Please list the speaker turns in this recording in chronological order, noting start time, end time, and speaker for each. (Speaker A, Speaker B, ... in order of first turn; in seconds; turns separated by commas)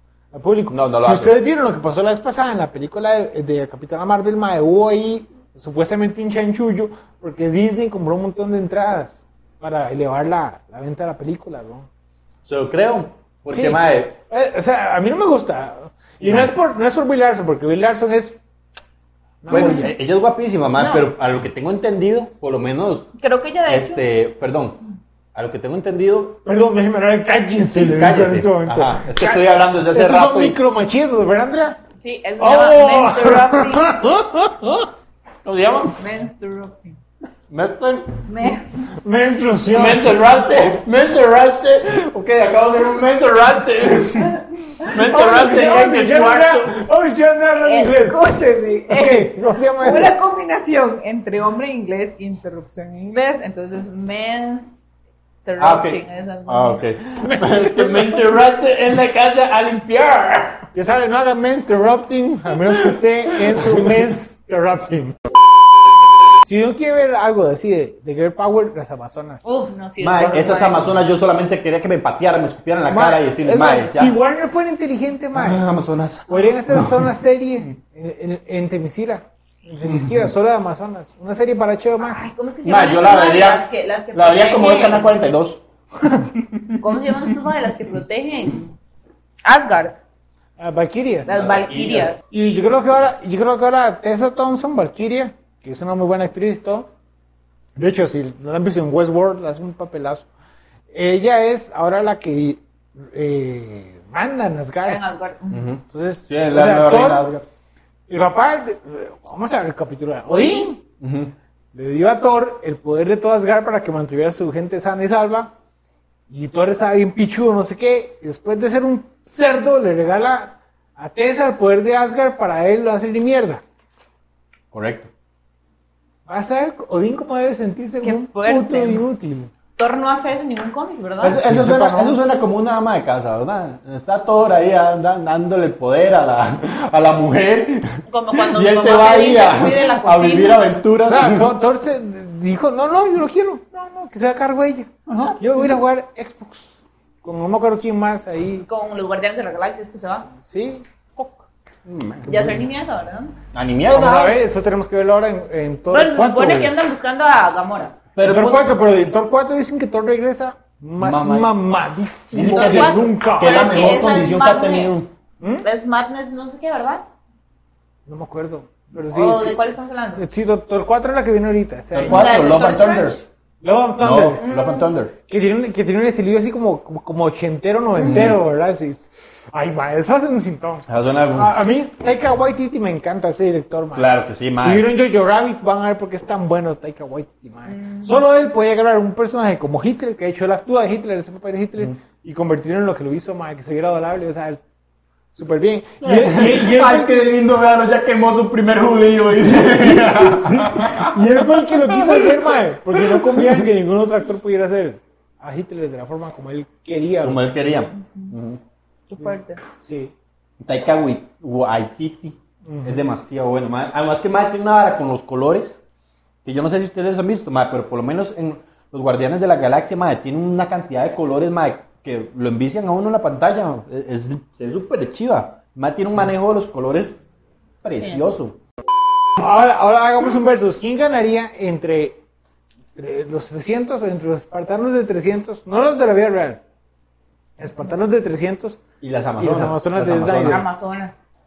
Speaker A: 0.3-11.9, Speaker B: 0.7-1.4, Speaker B: 12.4-14.2, Speaker A: 13.5-18.4, Speaker B: 16.2-16.5, Speaker A: 19.4-19.9, Speaker B: 19.5-23.1, Speaker C: 20.8-21.1, Speaker C: 23.2-24.0, Speaker B: 23.7-24.8, Speaker B: 25.3-26.4, Speaker A: 26.4-31.8, Speaker B: 27.7-30.6, Speaker C: 32.0-34.0, Speaker A: 32.4-34.9, Speaker B: 35.4-36.0, Speaker C: 36.0-37.0, Speaker B: 37.5-38.2, Speaker C: 38.2-38.9, Speaker A: 38.9-40.2, Speaker B: 39.7-46.8, Speaker A: 45.0-48.2, Speaker C: 47.6-54.9, Speaker A: 48.9-50.1, Speaker C: 55.4-56.8, Speaker B: 55.6-60.6, Speaker A: 57.2-58.2, Speaker A: 60.7-65.2, Speaker A: 66.4-69.4, Speaker C: 69.4-71.0, Speaker B: 70.0-74.1, Speaker A: 72.9-75.6, Speaker B: 75.3-77.1, Speaker A: 76.3-82.3, Speaker B: 79.8-80.2, Speaker C: 82.0-85.1, Speaker B: 82.6-85.6, Speaker C: 86.8-88.7, Speaker C: 89.4-90.0, Speaker A: 90.6-91.5, Speaker C: 91.3-92.2, Speaker B: 91.3-92.1, Speaker A: 92.3-96.9, Speaker A: 97.8-100.2, Speaker A: 100.9-105.0, Speaker C: 104.8-105.7, Speaker B: 105.5-107.4, Speaker A: 105.9-107.3, Speaker A: 108.1-110.8, Speaker C: 110.3-110.7, Speaker B: 111.0-111.3, Speaker A: 111.7-115.5, Speaker A: 116.3-123.6, Speaker B: 124.7-125.1, Speaker A: 126.3-129.5, Speaker C: 128.0-129.0, Speaker C: 129.8-131.4, Speaker B: 131.2-141.5, Speaker A: 131.4-132.2, Speaker C: 138.1-140.7, Speaker A: 141.1-148.7, Speaker B: 145.1-145.4, Speaker C: 148.7-150.3, Speaker A: 150.4-151.4, Speaker B: 151.8-152.6, Speaker C: 152.2-153.3, Speaker B: 153.5-154.4, Speaker A: 153.9-156.7, Speaker C: 155.9-158.0, Speaker B: 158.1-158.7, Speaker A: 158.2-163.8, Speaker B: 161.0-161.5, Speaker B: 162.3-165.1, Speaker C: 162.3-165.0, Speaker A: 165.4-165.7, Speaker C: 165.6-167.0, Speaker A: 168.1-169.6, Speaker C: 169.1-170.2, Speaker A: 170.1-172.3, Speaker B: 171.9-173.2, Speaker C: 172.0-173.2, Speaker A: 173.6-174.4, Speaker B: 174.0-175.1, Speaker C: 174.4-174.9, Speaker A: 175.3-194.6, Speaker B: 178.0-178.4, Speaker B: 180.9-181.5, Speaker B: 183.9-184.8, Speaker C: 187.7-188.2, Speaker A: 195.3-197.1, Speaker B: 196.0-202.3, Speaker A: 199.3-207.4, Speaker B: 203.0-203.6, Speaker B: 207.2-208.6, Speaker C: 209.1-209.6, Speaker A: 209.2-210.1, Speaker B: 210.6-215.8, Speaker A: 212.6-213.0, Speaker B: 216.4-227.2, Speaker B: 227.8-228.6, Speaker A: 229.4-232.2, Speaker A: 232.9-236.6, Speaker A: 237.6-238.8, Speaker B: 239.0-240.6, Speaker A: 239.4-240.7, Speaker C: 240.4-241.2